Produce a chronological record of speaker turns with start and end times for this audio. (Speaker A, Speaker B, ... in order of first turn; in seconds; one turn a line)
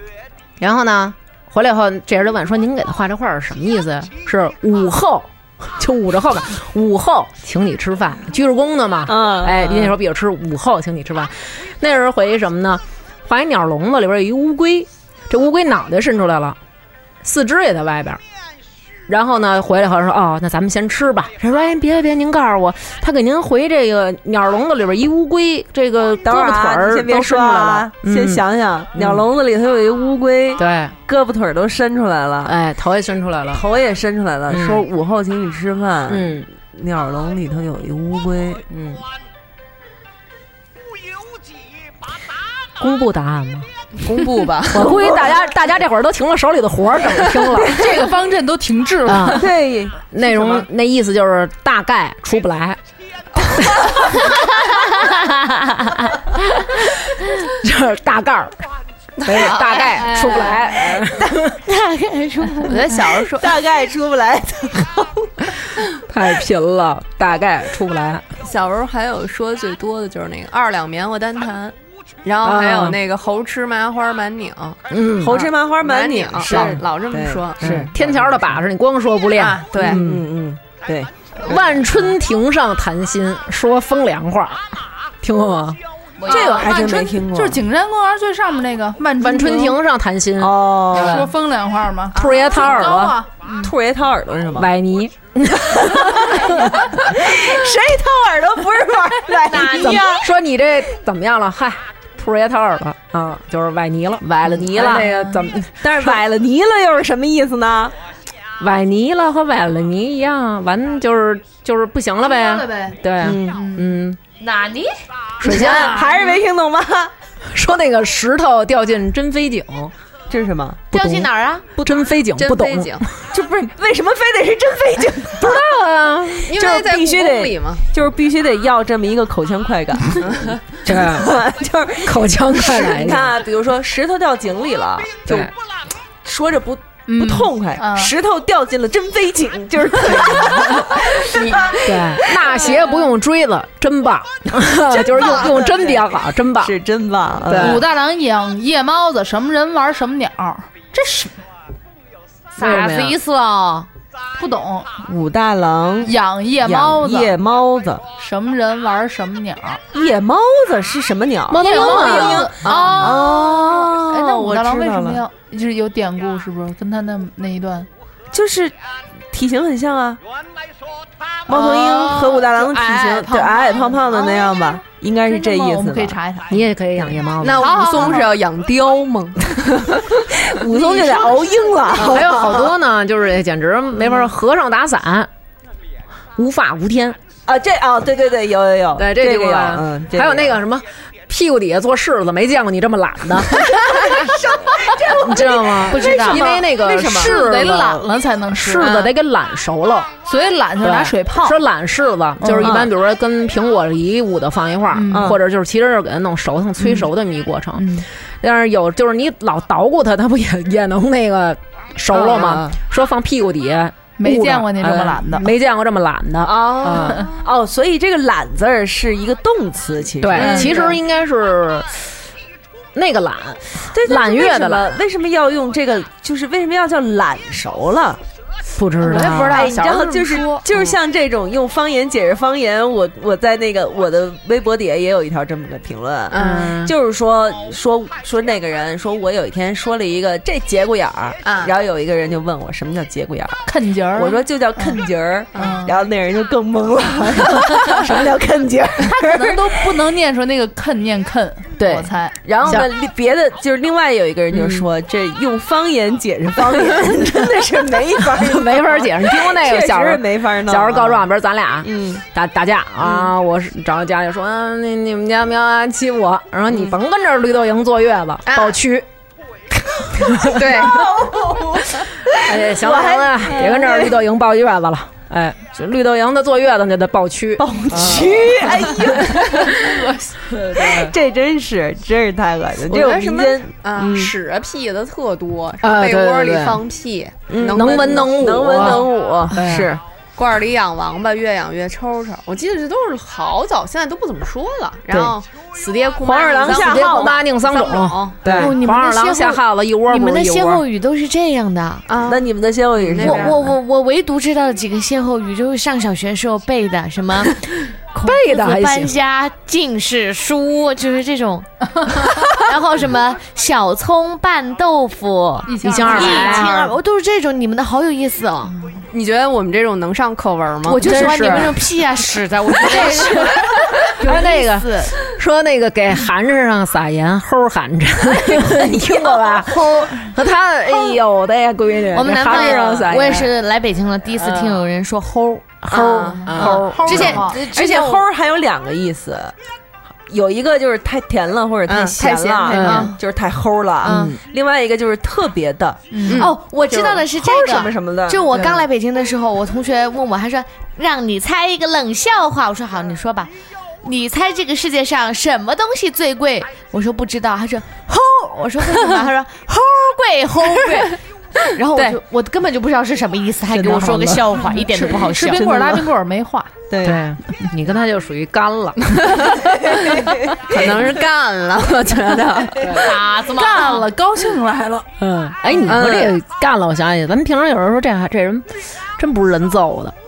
Speaker A: 0.6-16.6
Speaker B: 9.1-9.9
Speaker A: 17.2-18.2
Speaker A: 19.1-28.4
Speaker B: 26.2-32.5
Speaker A: 28.9-29.3
Speaker A: 30.6-31.0
Speaker A: 32.5-33.6
Speaker B: 33.5-38.6
Speaker A: 34.5-34.9
Speaker A: 36.1-36.5
Speaker A: 38.7-39.0
Speaker A: 42.8-43.7
Speaker C: 44.0-45.0
Speaker B: 44.7-45.4
Speaker A: 44.7-47.9
Speaker B: 47.5-47.9
Speaker D: 47.7-49.5
Speaker A: 49.0-49.5
Speaker B: 49.2-50.6
Speaker A: 50.1-52.8
Speaker A: 53.4-54.4
Speaker A: 56.1-58.6
Speaker A: 59.2-61.5
Speaker C: 59.3-60.7
Speaker E: 60.1-60.5
Speaker E: 61.6-62.8
Speaker C: 62.6-63.6
Speaker B: 63.4-65.3
Speaker A: 66.1-68.2
Speaker C: 68.4-74.8
Speaker A: 72.4-73.0
Speaker A: 74.9-75.4
Speaker B: 75.2-78.5
Speaker C: 75.3-77.9
Speaker A: 76.5-76.8
Speaker A: 77.6-80.3
Speaker C: 79.4-80.0
Speaker B: 79.8-81.9
Speaker A: 81.4-85.8
Speaker D: 86.2-89.8
Speaker B: 86.3-87.6
Speaker A: 89.2-91.3
Speaker B: 90.4-91.3
Speaker D: 90.9-93.7
Speaker A: 92.1-93.2
Speaker B: 93.6-94.7
Speaker A: 94.6-96.9
Speaker B: 95.7-100.2
Speaker E: 99.5-100.2
Speaker A: 99.5-106.2
Speaker B: 104.4-107.9
Speaker A: 108.6-114.2
Speaker D: 112.3-113.0
Speaker B: 113.2-113.6
Speaker D: 113.5-113.9
Speaker E: 114.4-114.9
Speaker A: 115.4-116.1
Speaker B: 115.4-117.1
Speaker A: 117.5-119.9
Speaker B: 120.3-120.8
Speaker A: 120.9-123.1
Speaker E: 120.9-121.7
Speaker C: 121.8-123.0
Speaker B: 123.3-125.6
Speaker A: 125.4-126.7
Speaker C: 126.5-127.8
Speaker B: 126.5-135.5
Speaker A: 130.8-131.4
Speaker A: 132.0-133.4
Speaker A: 135.3-135.5
Speaker B: 136.2-142.6
Speaker D: 137.1-138.1
Speaker A: 140.1-146.7
Speaker B: 144.9-147.8
Speaker A: 147.4-147.8
Speaker D: 147.5-151.3
Speaker E: 152.6-153.9
Speaker A: 152.6-153.2
Speaker D: 154.4-154.9
Speaker B: 155.0-158.0
Speaker D: 156.0-157.3
Speaker D: 158.2-159.8
Speaker B: 159.9-165.2
Speaker A: 161.5-163.1
Speaker D: 161.6-167.9
Speaker B: 168.3-168.7
Speaker B: 169.3-170.2
Speaker B: 171.5-176.2
Speaker D: 171.7-174.4
Speaker D: 175.2-176.6
Speaker A: 176.5-178.2
Speaker C: 177.4-179.7
Speaker D: 177.6-178.3
Speaker B: 180.0-182.7
Speaker A: 181.9-185.3
Speaker A: 186.4-187.2
Speaker B: 187.5-190.6
Speaker A: 189.0-194.4
Speaker B: 194.1-197.4
Speaker A: 195.0-200.2
Speaker E: 195.9-196.4
Speaker D: 197.2-199.1
Speaker D: 200.2-201.6
Speaker A: 200.8-217.3
Speaker D: 202.4-202.8
Speaker B: 202.6-202.9
Speaker D: 204.9-205.3
Speaker B: 205.1-205.4
Speaker D: 206.8-207.1
Speaker D: 207.8-208.1
Speaker B: 212.1-212.8
Speaker D: 214.2-215.5
Speaker B: 216.4-221.0
Speaker A: 220.2-222.0
Speaker A: 222.9-225.0
Speaker B: 223.9-228.2
Speaker A: 228.7-229.9
Speaker C: 229.2-230.2
Speaker B: 229.3-249.8
Speaker C: 236.3-236.7
Speaker A: 236.3-236.9
Speaker C: 241.4-241.7
Speaker D: 243.7-245.0
Speaker D: 245.6-245.9
Speaker D: 249.0-252.4
Speaker A: 251.8-252.9
Speaker B: 252.4-261.3
Speaker A: 254.5-254.9
Speaker A: 258.3-269.1
Speaker B: 261.8-262.2
Speaker C: 268.5-268.8
Speaker A: 270.1-271.0
Speaker C: 270.4-271.1
Speaker B: 270.8-274.2
Speaker A: 272.4-281.1
Speaker B: 277.6-280.0
Speaker B: 280.7-284.3
Speaker C: 282.9-289.1
Speaker A: 285.8-286.8
Speaker B: 287.5-290.0
Speaker A: 287.6-289.9
Speaker C: 290.4-298.7
Speaker A: 295.1-295.4
Speaker B: 296.2-297.4
Speaker A: 296.6-300.8
Speaker E: 298.5-302.1
Speaker C: 302.1-303.6
Speaker B: 302.3-303.6
Speaker E: 303.2-311.7
Speaker A: 308.2-309.2
Speaker E: 312.3-318.8
Speaker D: 315.7-316.6
Speaker A: 315.8-316.9
Speaker C: 319.1-321.7
Speaker E: 320.9-325.1
Speaker A: 321.0-321.8
Speaker A: 322.9-333.5
Speaker E: 332.1-335.8
Speaker B: 332.4-333.4
Speaker A: 334.4-334.8
Speaker A: 335.8-337.5
Speaker C: 335.9-337.5
Speaker D: 336.5-337.6
Speaker E: 336.6-338.2
Speaker B: 337.7-339.6
Speaker B: 340.3-346.1
Speaker C: 341.9-343.1
Speaker A: 342.7-343.1
Speaker E: 342.8-343.2
Speaker A: 344.0-344.4
Speaker E: 344.1-344.3
Speaker D: 346.1-346.4
Speaker E: 346.3-353.5
Speaker B: 346.8-348.7
Speaker E: 354.0-361.2
Speaker E: 361.7-365.7
Speaker B: 363.7-364.5
Speaker D: 364.6-366.7
Speaker B: 365.6-366.1
Speaker B: 366.9-367.2
Speaker A: 367.0-369.5
Speaker B: 369.9-370.9
Speaker C: 370.7-373.1
Speaker A: 372.8-373.1
Speaker E: 373.0-374.1
Speaker D: 373.4-375.1
Speaker A: 375.2-380.1
Speaker C: 375.9-376.3
Speaker B: 375.9-376.3